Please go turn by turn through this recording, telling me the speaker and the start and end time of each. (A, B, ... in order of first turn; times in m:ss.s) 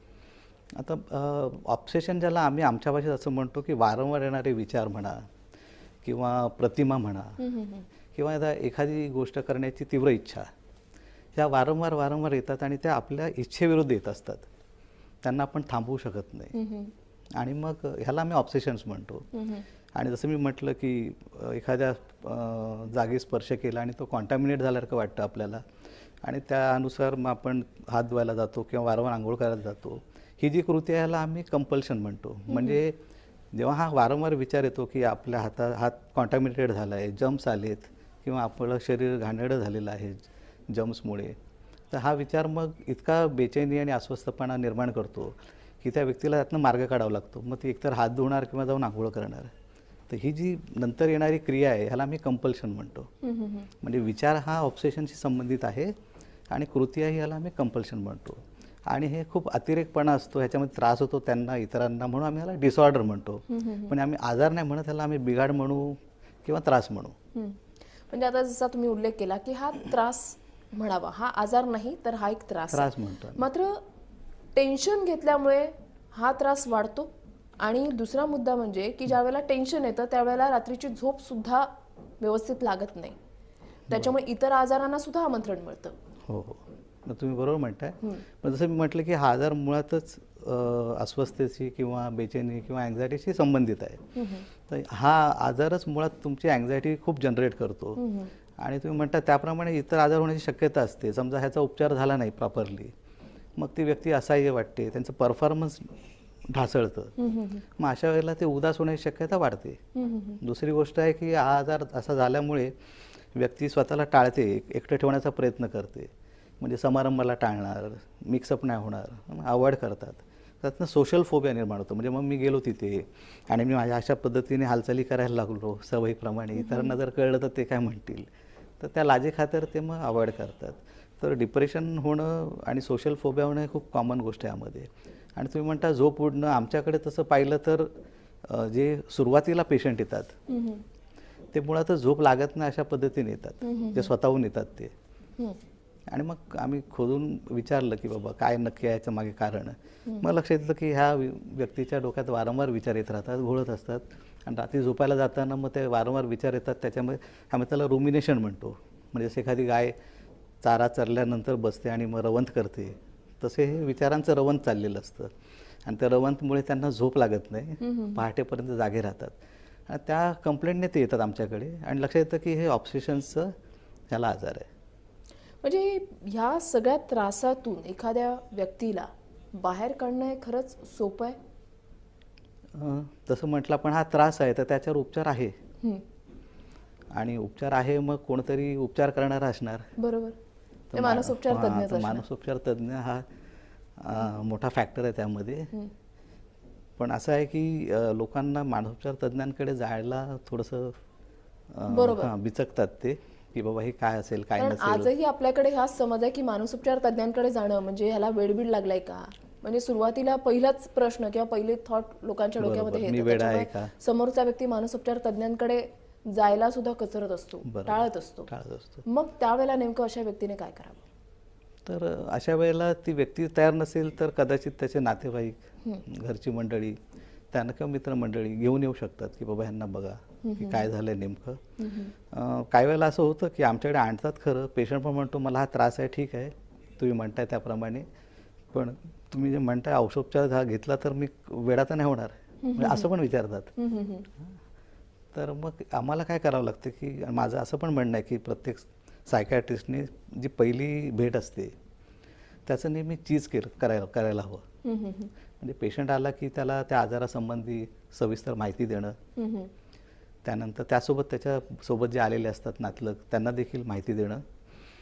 0:00.8-0:05.2 A
0:06.0-0:07.4 A
0:07.4-0:07.9 B
0:08.1-0:10.5 A
0:11.3-0:14.5 A
0:15.2-0:16.5 A
0:16.5-0:16.9 B
0:17.3-0:19.3 A
0:19.3-0:19.6 B
0:19.9-0:25.6 A
0:26.2-0:33.0 A
0:32.5-0:32.8 B
0:33.5-0:41.4 A
0:41.9-0:49.5 A
0:50.1-0:53.1 A
0:53.2-0:53.7 B
0:53.8-0:55.9 A
0:56.5-1:07.1 A
1:03.5-1:03.9 B
1:08.1-1:13.8 B
1:12.7-1:13.4 A
1:14.5-1:17.1 B
1:17.6-1:23.2 B
1:23.9-1:25.9 B
1:26.2-1:34.1 A
1:34.1-1:34.5 B
1:34.6-1:38.0 A
1:38.0-1:38.3 B
1:38.6-1:42.9 A
1:43.6-1:45.9 A
1:46.5-1:47.1 A
1:47.2-1:47.6 B
1:47.8-1:49.8 A
1:49.9-1:50.4 B
1:50.4-1:52.7 A
1:53.3-2:17.9 A
2:06.6-2:07.0 B
2:18.4-2:20.3 A
2:20.5-2:20.8 B
2:21.5-2:24.9 A
2:23.6-2:24.1 B
2:26.1-2:40.0 A
2:40.6-2:45.3 A
2:45.8-2:49.4 A
2:47.8-2:48.2 B
2:49.9-2:53.5 A
2:54.1-2:54.7 A
2:55.6-3:01.4 B
3:02.7-3:05.6 A
3:07.1-3:09.9 A
3:10.0-3:10.4 B
3:10.9-3:13.2 A
3:10.9-3:12.2 B
3:14.0-3:15.7 A
3:17.0-3:21.0 A
3:21.7-3:25.1 A
3:21.9-3:22.3 B
3:24.6-3:38.5 B
3:32.6-3:33.9 A
3:37.6-3:39.0 A
3:39.0-3:41.0 B
3:41.8-3:47.0 A
3:47.5-3:51.6 A
3:50.4-3:50.8 B
3:51.8-3:52.1 B
3:52.3-3:58.1 A
3:58.7-4:03.7 A
4:02.6-4:03.1 B
4:03.8-4:04.3 B
4:05.3-4:11.7 A
4:12.6-4:14.6 A
4:14.8-4:15.3 B
4:15.6-4:19.2 A
4:19.4-4:19.7 B
4:20.4-4:24.4 A